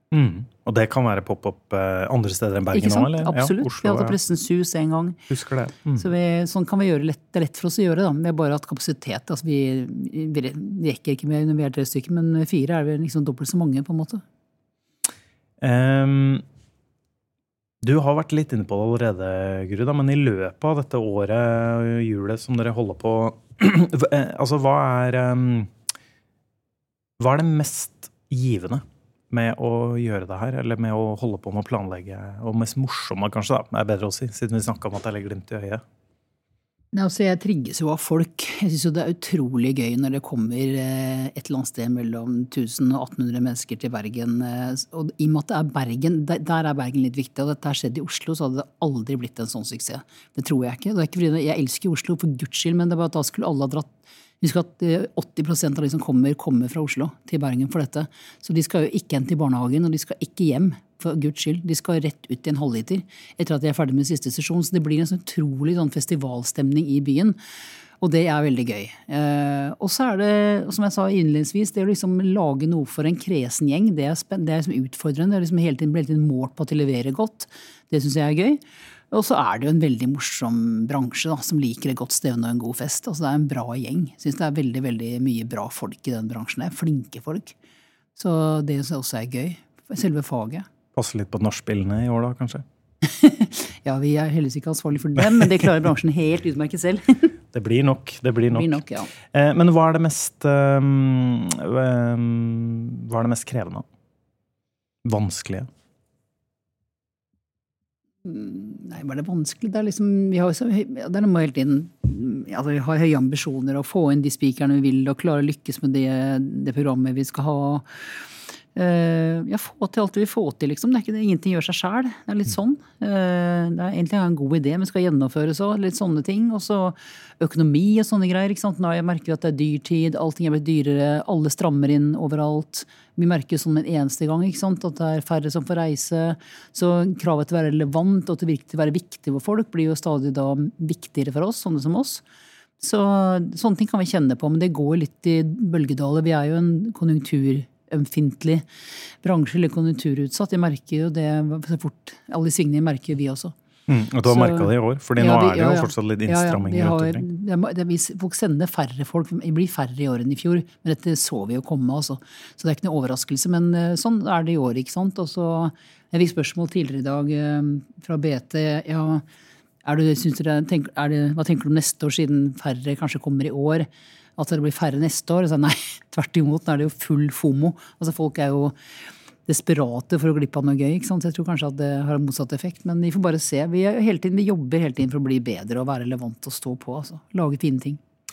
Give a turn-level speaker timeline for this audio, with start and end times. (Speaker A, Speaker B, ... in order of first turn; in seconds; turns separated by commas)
Speaker A: 0.1-4.2, Speaker B: 2.7-5.2, Speaker A: 5.3-6.0, Speaker B: 6.0-14.2, Speaker A: 15.6-16.4, Speaker A: 17.8-25.7, Speaker A: 27.2-35.8, Speaker B: 36.9-67.4, Speaker B: 68.0-87.5, Speaker B: 88.2-90.7, Speaker A: 90.9-92.6, Speaker B: 93.0-97.3, Speaker A: 97.5-103.8, Speaker B: 98.5-99.1, Speaker A: 105.0-105.7, Speaker B: 108.2-118.0, Speaker B: 118.7-142.2, Speaker B: 142.8-148.6, Speaker B: 149.2-153.5, Speaker A: 153.9-157.2, Speaker B: 154.2-169.2, Speaker B: 169.8-178.7, Speaker B: 179.5-188.0